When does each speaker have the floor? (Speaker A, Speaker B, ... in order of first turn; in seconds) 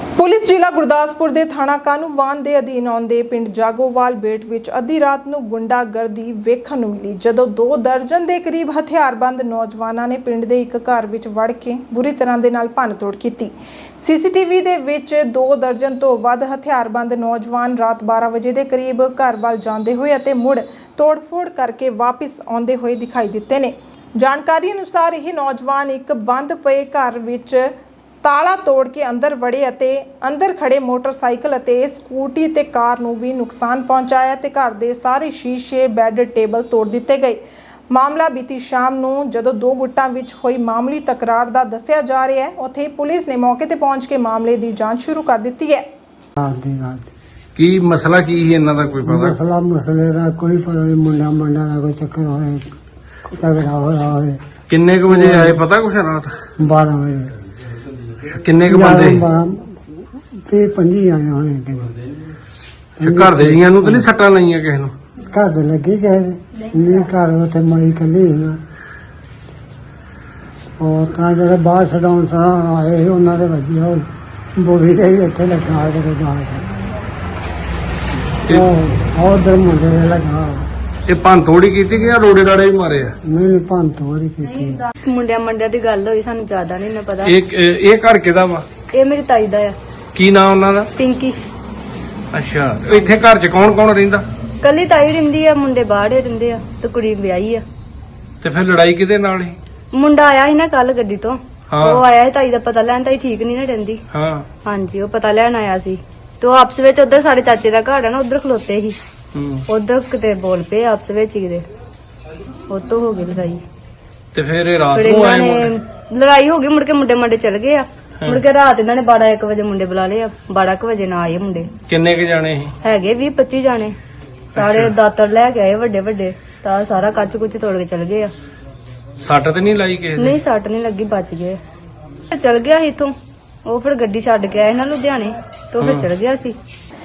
Speaker A: 0.1-27.7, 28.2-37.4, 37.9-45.9
Speaker B: 46.4-47.1, 49.0-52.7, 53.3-54.4, 55.1-55.6, 56.6-57.3, 58.7-59.8, 60.5-61.9, 63.0-64.1, 65.3-68.6, 70.8-76.7, 78.5-80.7, 83.2-84.8
Speaker C: 47.5-49.3, 54.7-56.4, 58.2-59.2, 63.1-64.9, 81.1-83.1, 87.2-88.7, 90.1-90.9, 92.3-94.3, 98.4-99.6, 101.7-102.0, 104.1-104.5, 109.3-109.6, 114.3-115.7, 121.9-122.8, 124.5-124.9, 129.2-130.4, 135.8-136.1
Speaker D: 84.5-87.3, 88.9-89.8, 91.0-91.3, 94.6-97.6, 99.9-104.0, 104.6-109.0, 109.7-111.6, 112.7-113.6, 114.9-121.7, 122.8-123.9, 124.6-128.3, 130.2-131.6, 132.3-133.1, 133.7-136.6